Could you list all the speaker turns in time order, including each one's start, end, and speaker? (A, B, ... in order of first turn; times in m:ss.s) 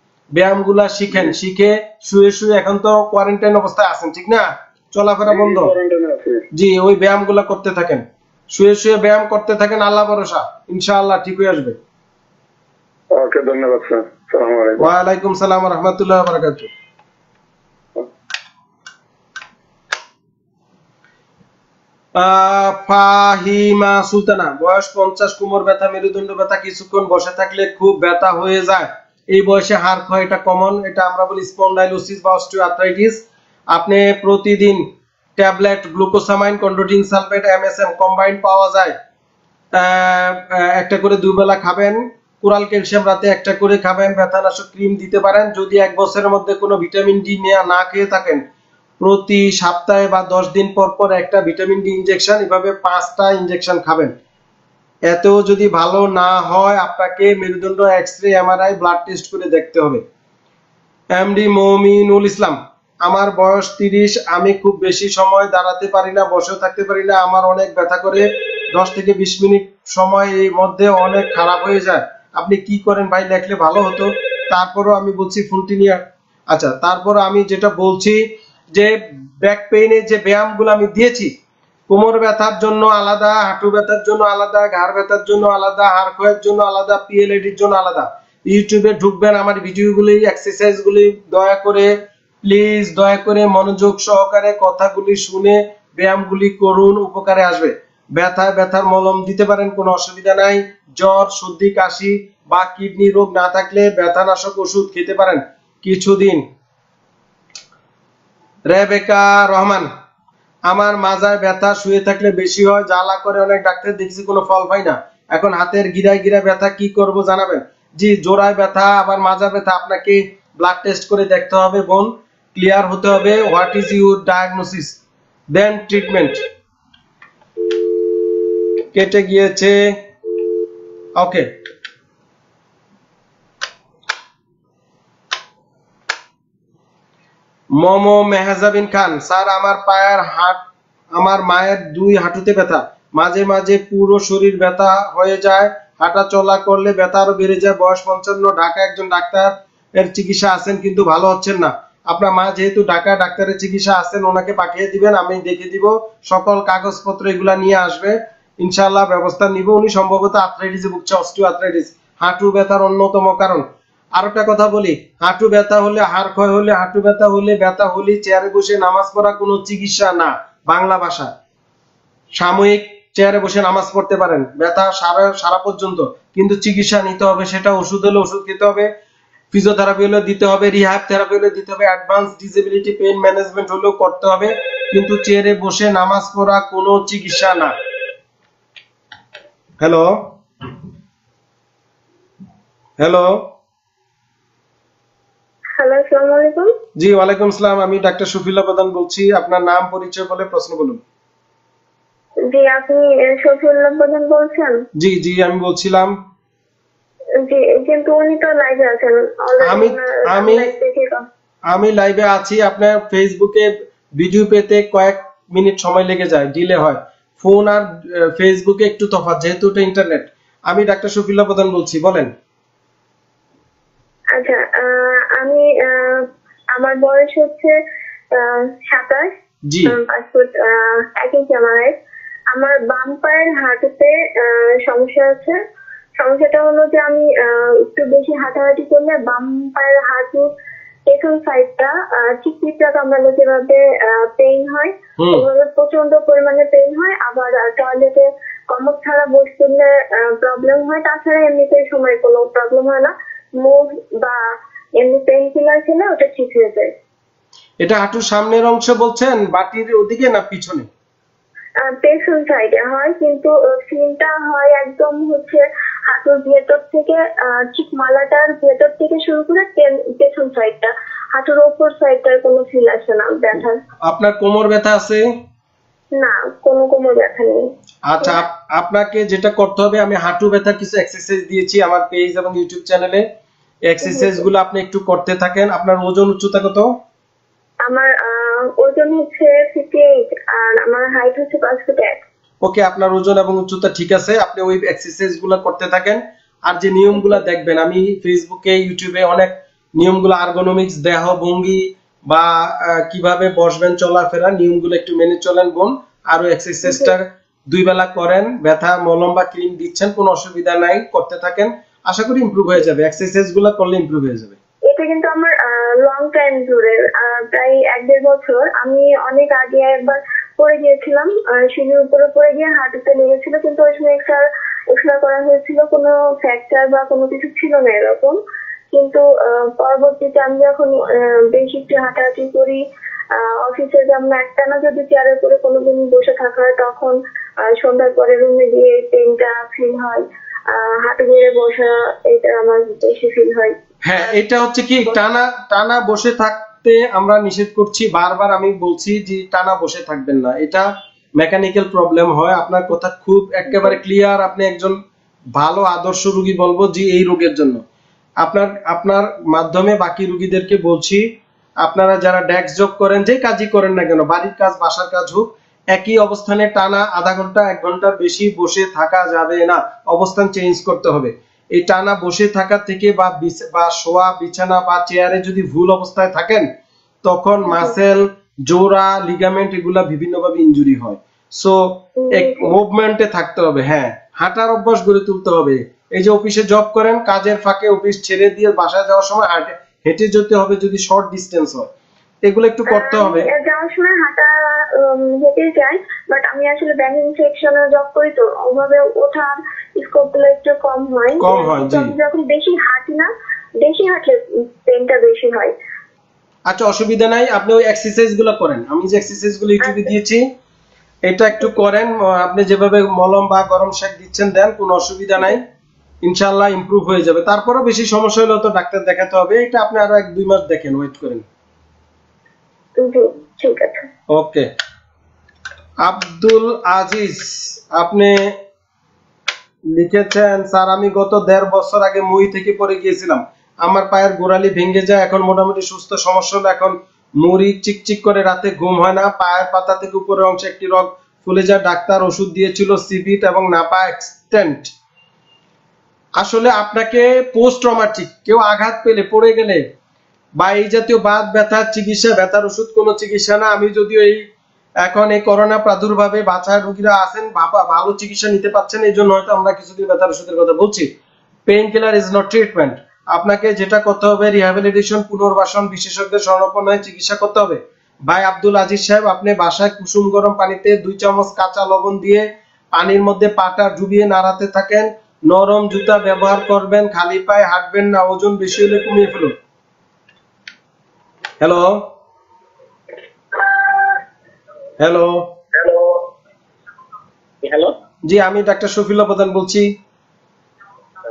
0:00.3-0:05.7 A
0:05.3-0:06.4 B
0:06.5-0:11.8 A
0:13.1-0:14.8 B
0:14.8-0:16.7 A
0:22.2-0:39.0 A
0:39.7-0:48.4 A
0:49.0-0:54.1 A
0:55.1-1:00.0 A
1:01.1-1:18.2 A
1:18.7-1:21.3 A
1:21.9-1:31.9 A
1:32.4-1:46.4 A
1:48.7-1:49.9 A
1:50.7-2:05.0 A
2:05.5-2:06.4 A
2:08.9-2:10.0 A
2:11.2-2:11.5 A
2:17.8-2:20.6 A
2:21.1-2:43.6 A
2:44.2-2:51.3 A
2:52.4-2:58.9 A
2:59.5-3:07.7 A
3:09.8-3:10.4 A
3:13.0-3:13.5 A
3:15.8-3:16.7 C
3:17.0-3:21.0 A
3:22.5-3:24.8 C
3:25.0-3:26.1 A
3:27.4-3:31.2 C
3:29.6-3:30.7 A
3:31.7-3:42.3 A
3:44.3-3:47.7 C
3:48.3-3:49.3 C
3:49.7-3:49.9 A
3:49.9-3:51.9 C
3:52.5-3:55.6 C
3:56.2-4:00.5 C
4:01.1-4:14.4 C
4:05.2-4:05.4 A
4:15.0-4:16.9 C
4:17.8-4:20.9 A
4:21.8-4:33.8 C
4:34.0-4:35.2 A
4:36.1-4:37.6 C
4:38.1-4:43.2 A
4:43.9-4:46.9 A
4:44.0-4:44.4 C
4:47.8-4:52.2 C
4:52.6-5:14.6 A
5:06.8-5:07.1 C
5:14.9-5:28.4 C
5:28.9-5:32.8 C
5:33.4-5:37.1 C
5:37.7-5:43.7 C
5:44.0-5:50.9 A
5:51.4-5:55.0 A
5:55.5-5:57.8 A
5:58.4-6:01.2 A
6:01.8-6:16.7 A
6:17.2-6:31.9 A
6:17.7-6:17.9 C
6:22.2-6:22.7 C
6:32.4-6:33.5 A
6:32.9-6:43.3 C
6:41.4-6:42.1 A
6:43.8-6:45.7 C
6:46.7-6:50.4 A
6:49.8-6:50.1 C
6:51.2-6:55.6 A
6:56.2-7:01.4 A
7:03.0-7:04.1 C
7:04.3-7:04.7 A
7:06.0-7:08.4 A
7:09.9-7:24.9 A
7:26.4-7:29.8 A
7:30.6-7:34.4 A
7:35.0-7:41.1 A
7:41.7-7:59.5 A
8:01.6-8:02.1 A
8:05.0-8:05.5 A
8:08.2-8:09.9 A